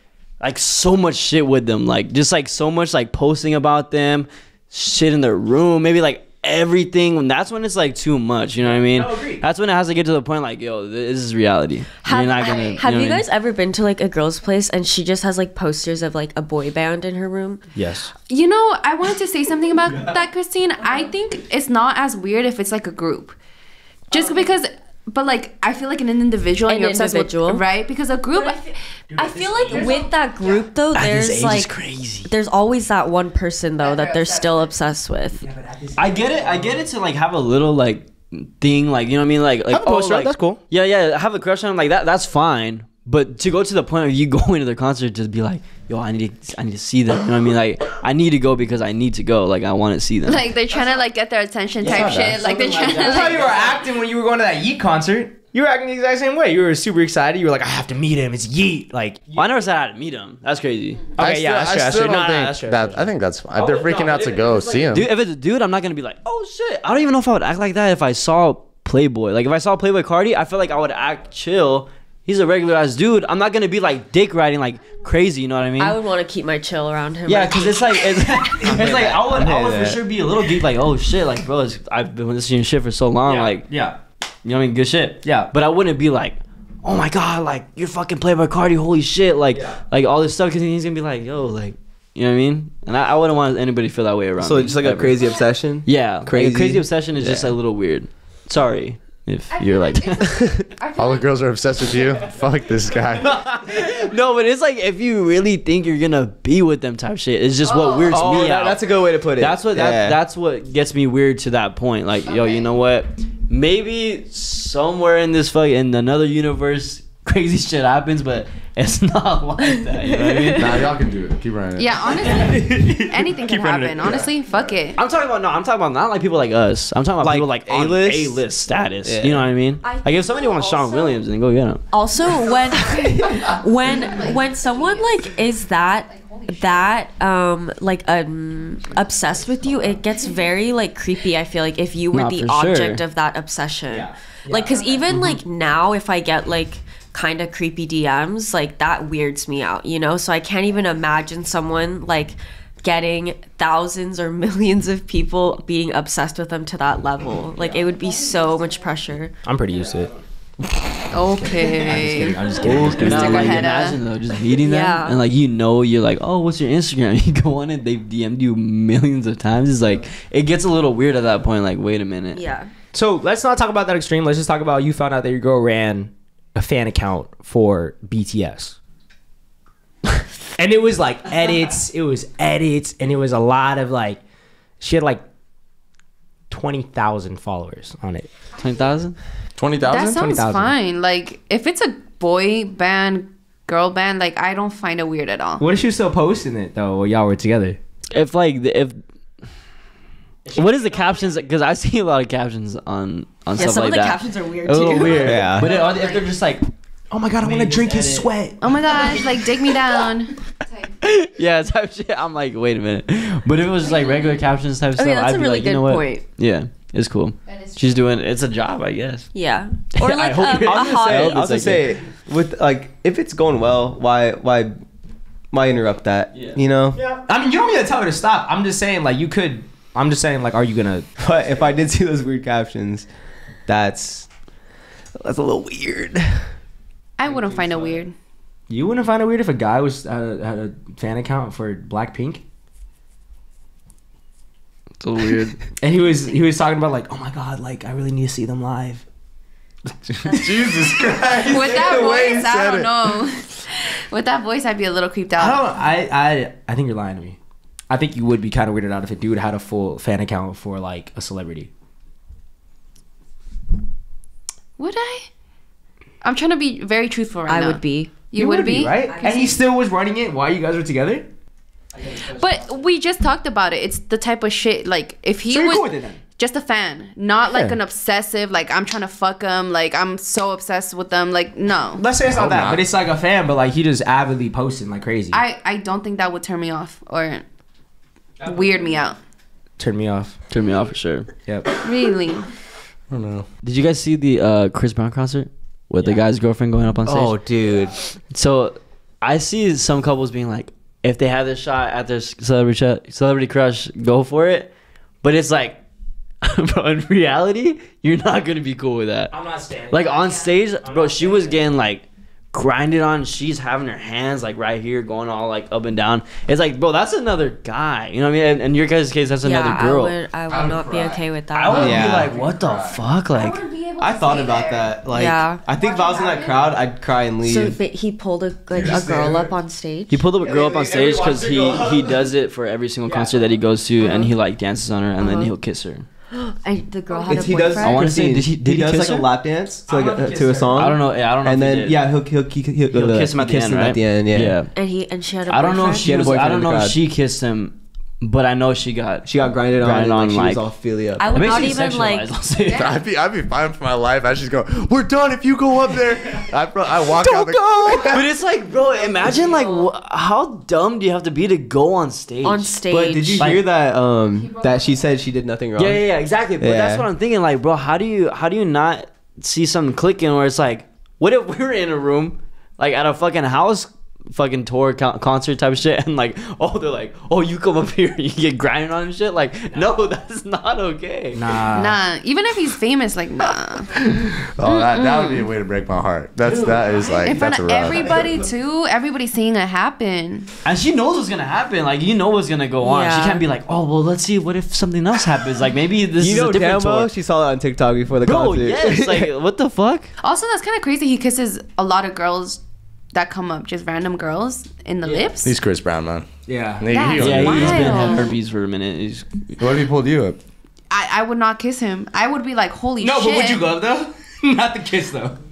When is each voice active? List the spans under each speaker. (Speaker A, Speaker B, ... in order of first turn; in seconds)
Speaker A: 0.4-13.2, 30.9-32.3, 36.0-50.5, 51.8-53.8, 59.4-61.1, 63.6-76.0, 77.3-83.7, 84.4-100.7, 103.5-120.9, 125.0-131.8, 142.1-143.0, 145.1-145.4, 159.7-160.1, 162.7-172.4, 188.6-189.2, 198.1-199.0, 200.5-206.7, 207.4-208.3, 208.9-209.3, 211.0-219.3, 220.1-221.9, 226.3-226.6, 245.0-245.6, 272.0-272.6, 290.5-291.3, 293.6-297.4, 298.3-304.7, 305.2-305.8, 306.4-309.4, 309.9-320.1, 321.6-323.6, 330.1-336.1, 337.7-339.3, 340.8-342.0, 342.9-344.7, 345.5-350.7, 351.3-352.9, 358.0-362.7, 365.8-381.4, 390.6-397.1, 398.2-400.1, 407.2-409.5
Speaker B: 8.6-9.4, 17.8-18.1, 29.1-30.1, 35.4-36.9, 39.7-40.6, 52.6-59.5, 61.2-63.1, 78.7-79.1, 83.2-84.0, 85.2-85.5, 89.5-89.8, 122.4-124.3, 143.9-144.8, 159.4-160.1, 161.4-163.7, 172.9-178.8, 180.6-184.2, 184.8-185.2, 186.5-188.3, 190.1-190.7, 195.6-197.8, 200.5-201.0, 207.1-208.6, 220.1-221.9, 227.0-231.1, 237.2-238.0, 238.7-242.4, 245.8-249.0, 249.9-251.2, 255.4-257.4, 257.9-261.7, 268.3-271.3, 275.5-276.2, 277.5-277.8, 282.0-285.4, 288.4-288.9, 289.8-290.4, 309.3-311.6, 330.8-331.6, 333.1-333.3, 339.9-340.9, 357.3-358.1, 363.4-363.6, 381.3-382.0, 406.5-406.9, 413.0-415.4
Speaker C: 12.0-17.7, 26.7-27.6, 29.2-35.4, 75.8-78.4, 120.2-120.8, 129.8-131.2, 131.9-159.3, 164.6-165.2, 172.3-172.7, 203.6-206.3, 213.9-214.3, 214.9-216.2, 219.3-221.4, 267.5-268.2, 269.0-269.6, 319.4-322.0, 325.1-325.6, 327.4-330.3, 335.2-335.5, 336.3-338.1, 344.7-346.1, 351.2-352.3, 362.4-363.5, 392.8-393.4
Speaker D: 12.4-12.8, 18.3-23.4, 24.1-28.7, 29.6-30.5, 33.8-34.6, 50.2-53.6, 99.5-101.3, 107.6-108.5, 121.8-125.0, 132.8-135.3, 136.1-137.0, 144.7-145.0, 157.8-158.9, 161.1-164.0, 189.8-195.7, 205.6-206.0, 208.6-210.9, 217.5-218.1, 237.2-238.1, 251.4-255.6, 264.8-265.3, 266.2-269.0, 272.1-282.0, 285.3-287.4, 288.4-289.2, 291.8-292.5, 323.3-325.0, 325.7-326.8, 352.6-353.0, 364.6-365.0, 381.7-385.5, 387.2-390.5, 400.2-402.6, 403.1-405.6, 406.9-408.4, 410.9-413.6
Speaker E: 51.8-52.4, 61.2-65.1, 101.0-103.4, 120.6-122.0, 162.6-163.3, 189.6-190.4, 250.3-253.2, 282.3-282.9, 293.1-293.5, 320.5-323.0, 328.7-329.5, 352.7-358.3, 384.5-388.1, 405.4-408.1, 409.6-410.4
Speaker F: 78.6-80.0, 94.4-97.5, 108.1-110.2, 127.2-128.4, 129.0-129.5, 205.2-205.7, 220.7-224.8, 225.5-227.0, 231.2-233.1, 233.7-234.3, 235.2-236.5, 297.1-298.0, 321.7-322.3, 324.0-327.8, 330.4-332.1, 337.3-344.6, 346.0-347.0, 349.3-351.7, 362.9-366.1, 366.6-367.1, 396.2-399.3